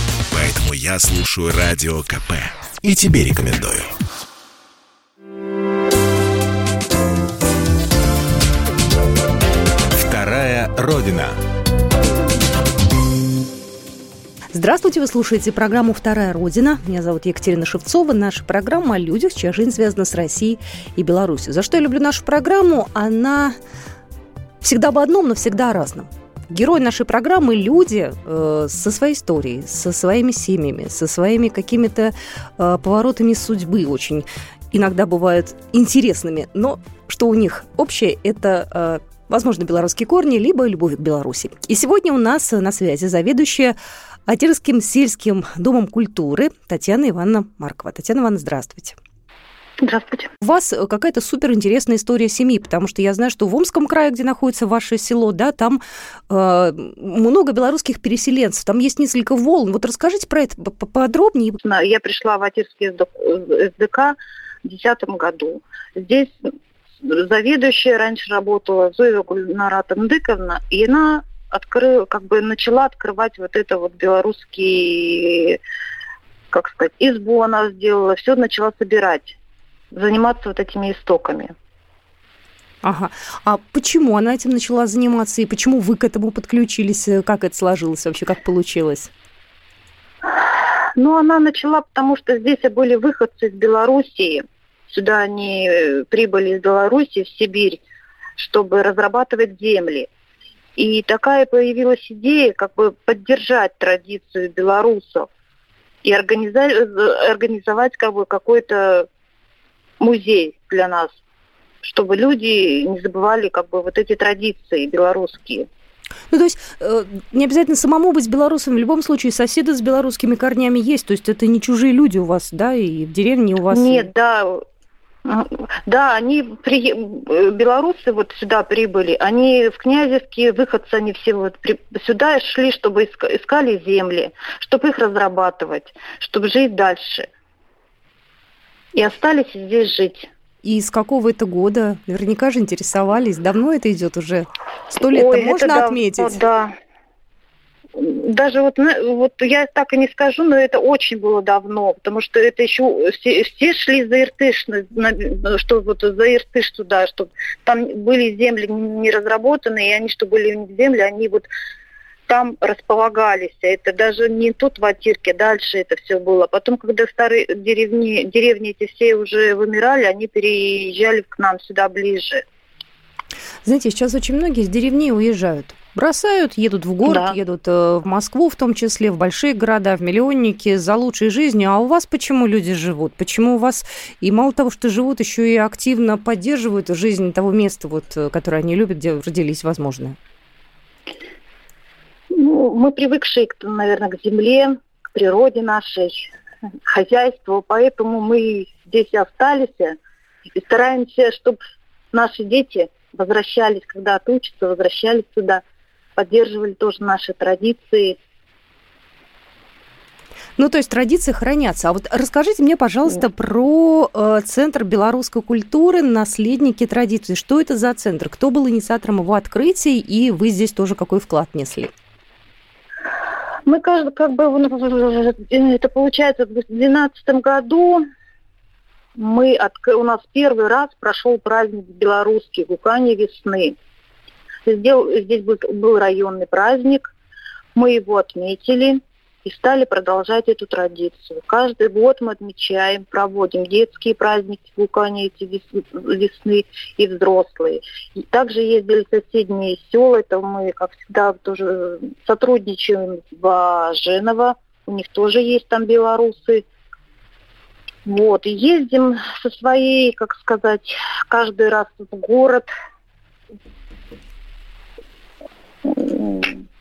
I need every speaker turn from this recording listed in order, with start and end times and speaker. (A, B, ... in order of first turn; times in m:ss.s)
0:00.3-0:03.9 A
0:09.9-0:11.4 A
0:14.5-0:23.5 B
0:24.6-0:43.7 B
0:44.3-0:49.0 B
0:49.8-0:50.3 C
0:50.4-1:01.6 B
1:01.6-1:06.3 C
1:07.0-1:15.6 C
1:16.5-1:19.4 C
1:19.9-1:21.5 C
1:22.8-1:29.1 B
1:30.3-1:37.8 C
1:38.4-1:40.1 C
1:40.8-1:45.3 C
1:46.0-1:49.1 C
1:50.0-1:51.2 C
1:51.8-1:55.7 C
1:56.3-2:04.1 B
2:03.7-2:04.6 C
2:05.2-2:17.3 C
2:18.9-2:20.3 C
2:20.6-2:26.4 B
2:25.1-2:26.7 C
2:28.0-2:41.5 C
2:42.3-2:52.4 C
2:53.6-3:10.2 B
2:57.0-2:57.4 C
3:12.3-3:16.3 C
3:16.9-3:20.0 C
3:20.5-3:21.6 C
3:22.1-3:25.6 C
3:26.2-3:28.2 C
3:30.6-3:41.9 B
3:43.6-3:48.0 C
3:49.2-3:53.8 C
3:54.6-3:57.1 C
3:57.7-4:16.6 C
4:18.0-4:22.7 C
4:25.8-4:26.6 C